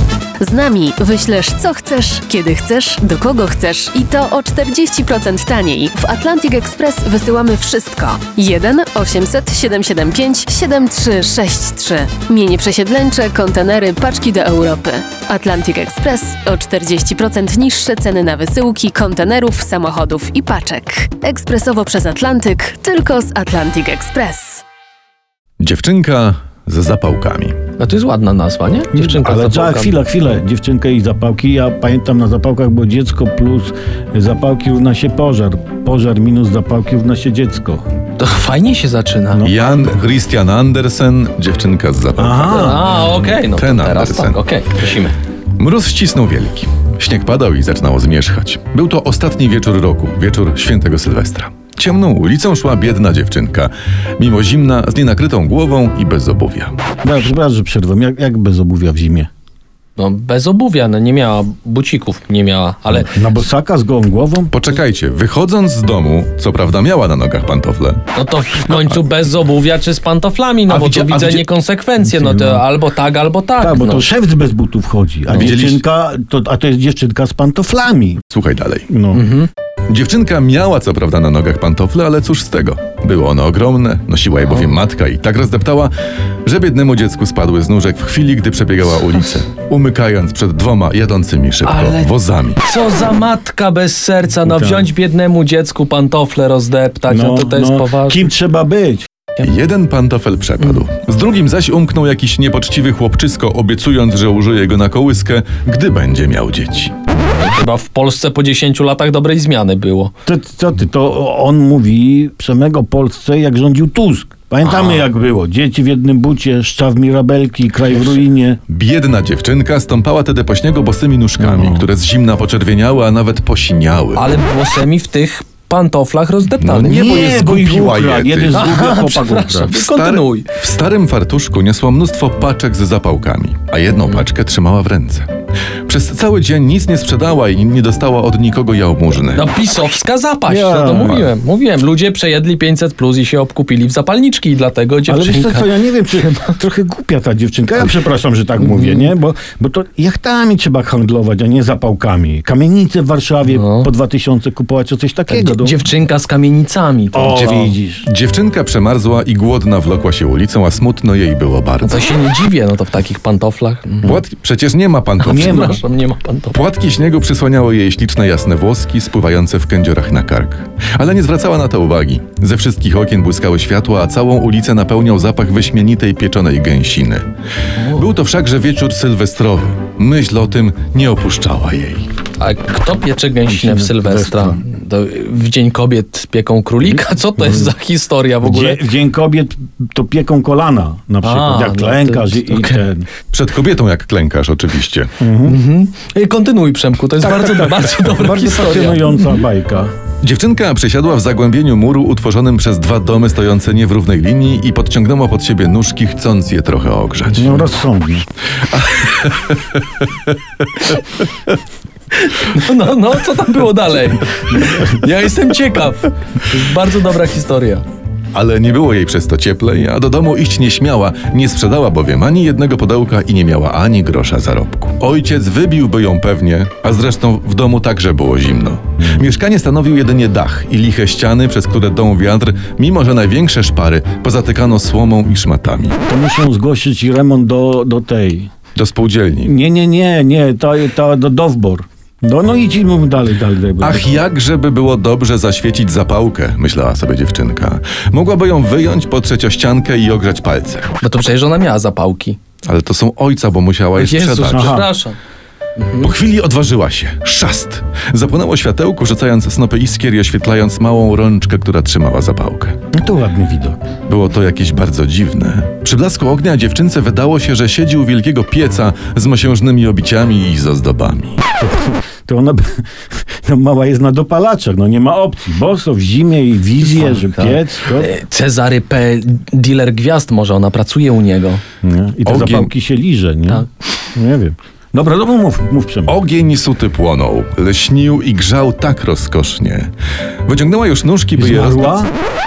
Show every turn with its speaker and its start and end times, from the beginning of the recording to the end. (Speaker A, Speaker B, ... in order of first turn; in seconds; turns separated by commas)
Speaker A: 0.4-24.6, Speaker B: 25.6-27.6, Speaker C: 27.8-29.9, Speaker D: 28.9-37.8, Speaker C: 38.2-39.5, Speaker B: 39.4-44.4, Speaker D: 42.2-42.8, Speaker C: 42.5-45.2, Speaker B: 45.6-56.8, Speaker D: 57.0-59.3, Speaker C: 60.0-63.1, Speaker D: 63.1-64.5, Speaker B: 64.5-68.0, Speaker C: 68.2-74.0, Speaker B: 70.7-71.5, Speaker D: 73.6-78.2, Speaker B: 75.4-75.8, Speaker B: 78.3-78.9, Speaker D: 78.9-79.3, Speaker C: 79.2-79.5, Speaker B: 79.9-85.9, Speaker B: 86.5-92.6, Speaker C: 91.7-92.1, Speaker C: 92.6-98.3, Speaker D: 94.5-94.9, Speaker D: 97.1-99.1, Speaker B: 99.4-106.9, Speaker C: 107.3-110.1, Speaker D: 110.3-118.6, Speaker C: 114.7-115.0, Speaker B: 118.7-124.2, Speaker D: 121.4-121.9, Speaker C: 124.2-127.5, Speaker B: 126.6-128.7, Speaker D: 126.8-129.8, Speaker C: 128.5-130.5, Speaker B: 129.7-135.3, Speaker B: 135.9-139.5, Speaker C: 139.3-146.6, Speaker D: 140.5-141.3, Speaker B: 141.0-141.3, Speaker D: 145.1-155.8, Speaker C: 148.6-149.1, Speaker C: 153.5-153.9, Speaker C: 155.3-157.8, Speaker D: 157.1-158.1, Speaker B: 158.0-162.1, Speaker C: 161.8-164.2, Speaker B: 164.0-165.7, Speaker C: 165.2-166.6, Speaker D: 165.3-165.8, Speaker B: 166.5-177.3, Speaker B: 177.9-182.1, Speaker C: 182.4-188.9, Speaker D: 183.4-184.6, Speaker D: 187.4-187.7, Speaker D: 188.4-193.1, Speaker C: 191.2-192.8, Speaker B: 193.3-195.2, Speaker D: 195.2-195.6, Speaker C: 195.4-199.4, Speaker D: 197.2-199.9, Speaker B: 200.2-207.7, Speaker D: 207.4-208.2, Speaker B: 208.7-210.1, Speaker C: 210.8-211.0, Speaker C: 212.1-217.8, Speaker B: 218.3-236.0, Speaker D: 236.1-238.5, Speaker B: 238.8-239.5, Speaker D: 239.4-244.2, Speaker B: 243.8-250.9, Speaker C: 251.0-252.4, Speaker B: 252.6-254.8, Speaker C: 254.0-255.2, Speaker D: 254.5-254.9, Speaker C: 255.8-256.1, Speaker B: 256.0-262.8, Speaker D: 262.9-263.8, Speaker B: 264.1-271.4, Speaker D: 271.6-272.6, Speaker D: 273.4-278.1, Speaker C: 276.8-281.6, Speaker D: 281.8-286.1, Speaker B: 282.2-282.7, Speaker B: 286.1-289.9, Speaker B: 290.5-292.0, Speaker D: 291.4-292.1